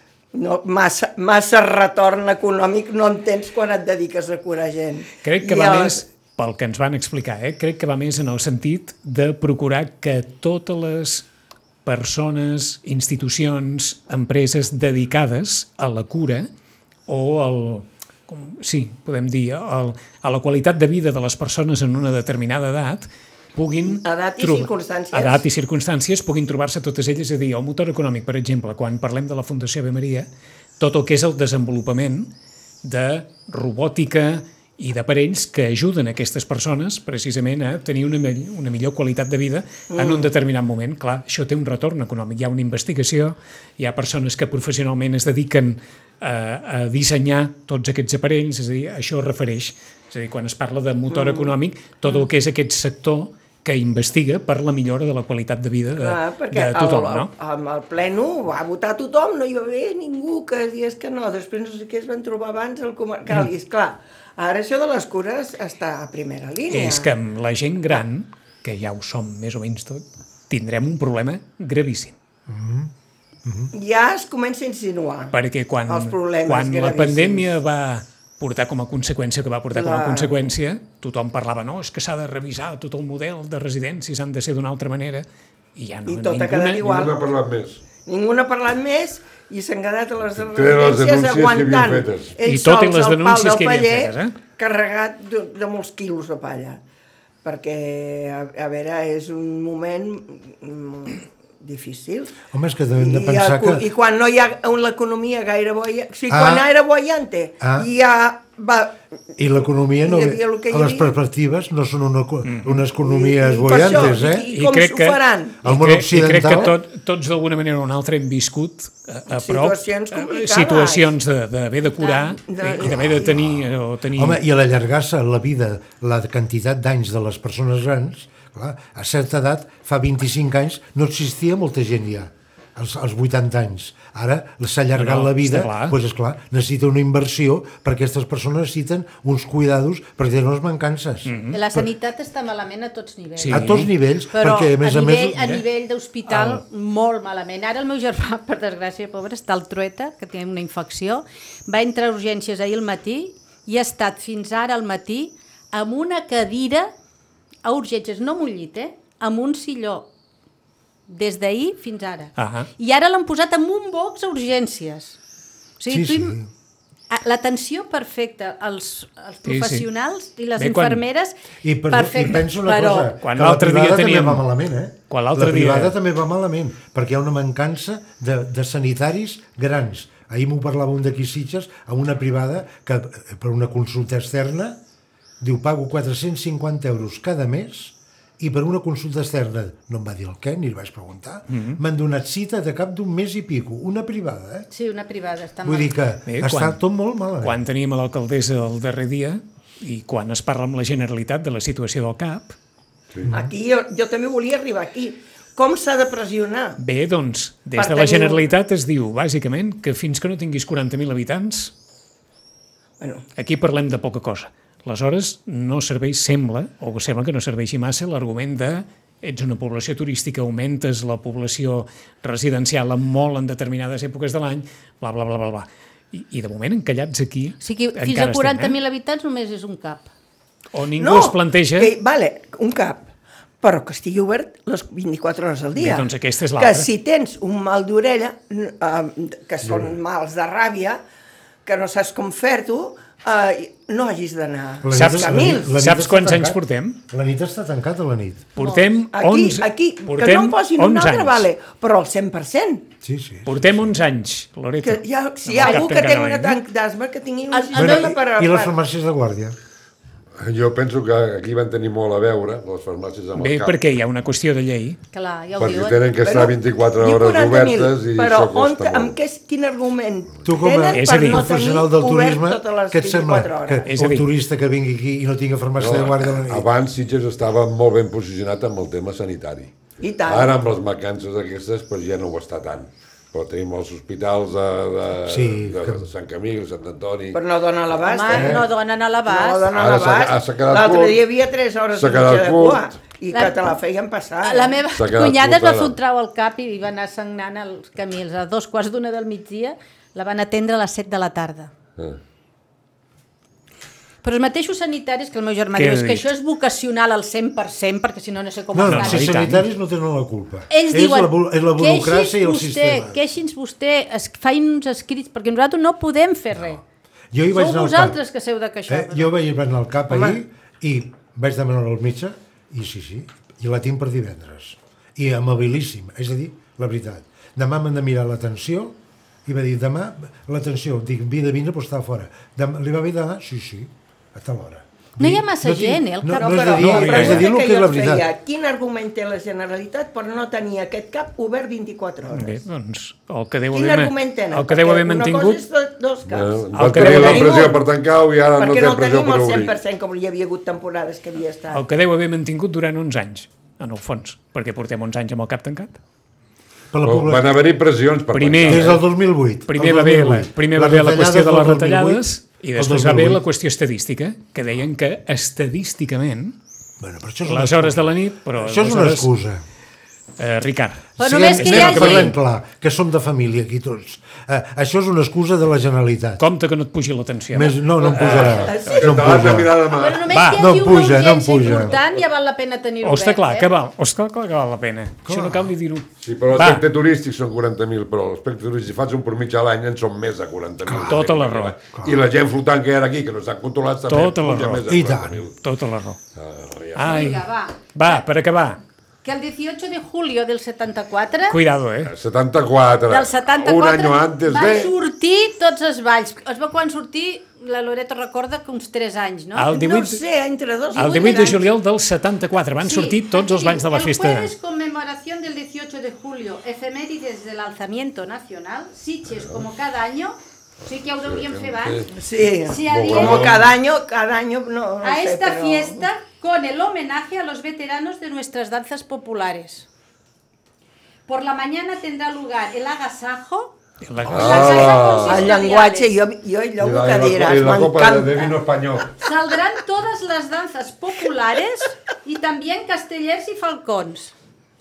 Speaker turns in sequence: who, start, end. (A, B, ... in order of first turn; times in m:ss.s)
0:00.3-0:06.0 A
0:05.2-0:11.3 B
0:11.8-0:16.5 B
0:17.1-0:30.3 B
0:23.8-0:25.4 A
0:30.8-0:32.3 B
0:32.8-0:57.3 B
0:39.9-0:40.3 A
0:51.1-0:51.6 A
0:56.0-1:07.1 A
1:06.7-1:12.1 B
1:12.5-1:12.9 C
1:13.4-1:13.7 C
1:13.7-1:17.5 A
1:15.3-1:27.0 B
1:19.7-1:20.4 A
1:26.0-1:27.3 A
1:26.8-1:27.8 D
1:27.9-1:36.8 A
1:30.3-1:32.3 D
1:32.4-1:34.4 B
1:37.4-1:42.4 A
1:42.5-1:43.8 C
1:43.0-1:49.0 A
1:46.3-1:46.7 C
1:47.6-1:47.9 C
1:49.4-1:54.5 C
1:50.0-1:51.1 A
1:52.4-1:52.8 B
1:53.0-1:55.6 A
1:54.5-2:04.4 B
1:55.6-1:56.8 C
1:59.3-2:01.2 A
2:02.0-2:03.4 A
2:02.8-2:03.6 C
2:04.1-2:21.9 C
2:14.9-2:16.0 B
2:21.2-2:21.6 B
2:21.5-2:36.9 E
2:23.4-2:23.9 B
2:23.5-2:25.6 C
2:26.3-2:26.6 B
2:37.6-2:40.1 E
2:41.1-2:45.2 E
2:42.4-2:42.7 B
2:45.8-2:46.4 E
2:45.9-2:46.5 C
2:47.1-2:51.4 E
2:49.4-2:49.9 B
2:50.6-2:51.0 B
2:51.6-3:04.8 C
2:51.9-2:53.2 E
2:53.2-2:54.5 B
2:55.1-2:56.0 B
3:05.4-3:14.7 C
3:11.5-3:11.8 B
3:14.7-3:15.9 E
3:15.6-3:17.6 C
3:16.3-3:16.8 B
3:17.4-3:22.6 B
3:23.2-3:23.5 C
3:23.3-3:26.8 A
3:26.8-3:31.7 B
3:27.8-3:28.4 A
3:33.4-3:48.7 B
3:47.6-3:50.1 E
3:50.7-3:51.9 B
3:51.0-3:53.0 A
3:53.6-4:01.0 A
3:55.8-3:56.9 B
4:01.6-4:05.7 A
4:04.8-4:08.5 C
4:04.9-4:07.0 B
4:08.6-4:11.5 B
4:08.6-4:12.9 A
4:13.0-4:13.9 C
4:13.4-4:16.6 B
4:14.8-4:18.8 A
4:15.6-4:16.0 E
4:17.5-4:18.1 E
4:17.7-4:19.6 C
4:20.4-4:23.8 D
4:23.4-4:25.0 B
4:25.1-4:26.0 E
4:25.6-4:29.2 D
4:26.2-4:33.8 A
4:30.4-4:36.6 C
4:30.9-4:31.5 B
4:33.8-4:34.3 B
4:35.8-4:39.7 D
4:40.0-4:40.6 A
4:40.3-4:47.4 D
4:45.3-4:46.0 C
4:47.3-4:48.6 A
4:48.0-4:49.7 E
4:48.3-4:48.6 C
4:49.2-4:54.8 A
4:49.8-4:51.2 D
4:51.9-4:52.8 D
4:54.4-5:01.7 E
4:55.0-4:56.0 D
5:04.2-5:09.5 E
5:05.7-5:06.3 B
5:08.7-5:13.2 C
5:08.8-5:09.6 B
5:10.7-5:16.8 E
5:17.3-5:18.2 C
5:17.5-5:19.3 E
5:18.9-5:38.3 C
5:20.1-5:20.4 A
5:35.2-5:36.5 E
5:36.3-5:42.6 A
5:36.7-5:37.4 B
5:42.3-5:45.6 B
5:43.7-5:47.9 A
5:46.3-5:49.8 D
5:46.7-5:47.8 B
5:48.5-5:51.8 A
5:51.7-5:56.0 B
5:56.9-5:57.7 C
5:57.0-5:59.0 D
5:58.3-5:59.0 B
5:58.6-6:03.4 C
5:59.7-6:06.6 B
6:07.0-6:09.6 C
6:07.4-6:09.3 B
6:10.4-6:12.3 B
6:11.2-6:12.3 E
6:11.2-6:16.4 C
6:16.4-6:19.1 B
6:17.5-6:19.8 C
6:18.0-6:20.3 D
6:18.1-6:19.6 A
6:19.8-6:23.7 E
6:20.3-6:20.7 B
6:20.5-6:22.0 C
6:23.0-6:26.8 B
6:25.2-6:25.7 C
6:26.2-6:35.5 D
6:30.8-6:31.3 C
6:30.9-6:31.8 B
6:34.0-6:34.8 B
6:34.9-6:35.4 C
6:35.6-6:36.2 B
6:36.3-6:37.2 D
6:37.0-6:38.2 E
6:37.0-6:38.8 B
6:39.2-6:41.6 E
6:41.5-6:42.1 B
6:42.0-6:44.9 D
6:43.1-6:49.7 E
6:49.5-6:50.2 B
6:49.7-6:51.6 A
6:50.9-6:54.5 B
6:50.9-6:51.6 E
6:52.8-7:02.0 E
7:01.3-7:02.1 D
7:02.1-7:06.1 A
7:02.6-7:03.6 E
7:02.9-7:03.7 D
7:05.0-7:09.9 E
7:11.3-7:13.7 E
7:14.0-7:15.3 B
7:14.3-7:16.2 E
7:14.3-7:15.4 D
7:15.0-7:18.6 A
7:16.8-7:19.1 D
7:19.2-7:24.3 E